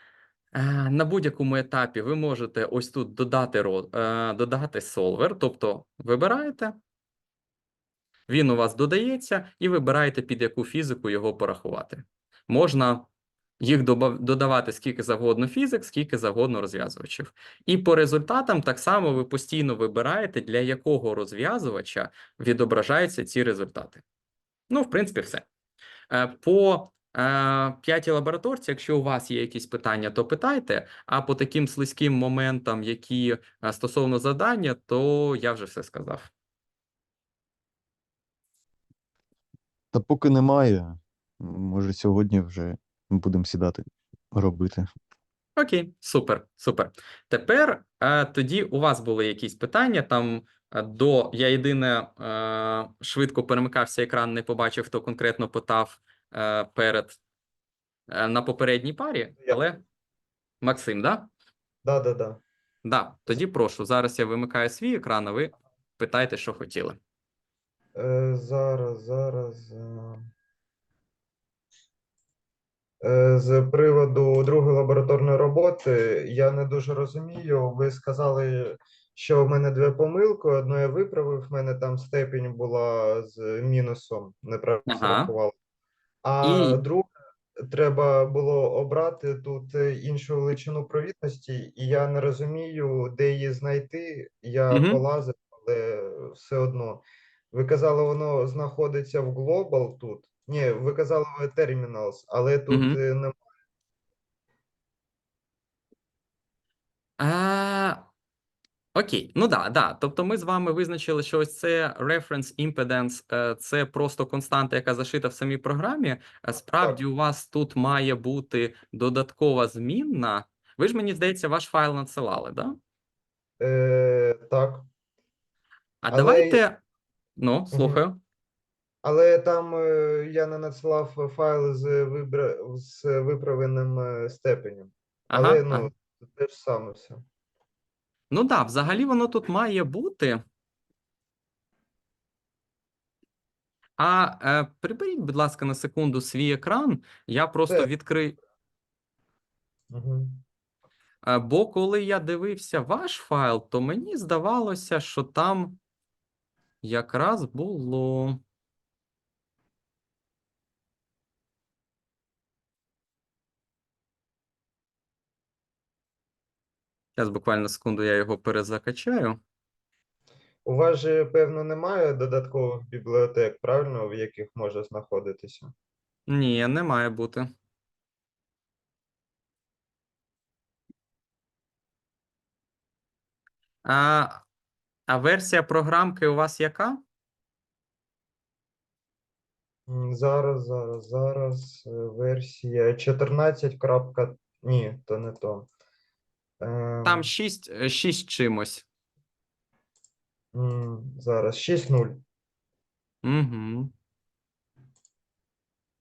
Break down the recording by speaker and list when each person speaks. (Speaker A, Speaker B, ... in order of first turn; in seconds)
Speaker A: 0.5-6.8, 8.3-13.1, 13.6-24.0, 24.7-25.4, 26.1-36.3, 45.6-57.2, 58.1-59.8, 60.6-61.3, 62.8-67.0, 84.8-85.3, 86.4-86.8, 94.7-95.0, 102.7-103.0, 107.2-108.1, 108.9-122.8, 126.0-126.8, 127.4-128.2, 135.3-135.9, 138.3-140.4, 144.0-148.4, 151.2-155.8, 156.8-158.4, 167.2-169.4, 176.3-177.5, 183.8-184.4, 185.1-187.0, 197.0-198.8, 203.2-203.9
Speaker B: 39.9-44.9
Speaker C: 61.8-62.4, 67.9-70.3, 73.0-85.5, 86.2-87.1, 87.6-103.4, 123.6-124.9, 126.1-126.6, 127.7-128.0, 129.0-137.2, 149.9-150.4, 170.6-175.7, 189.9-195.7, 196.6-197.3, 200.5-202.2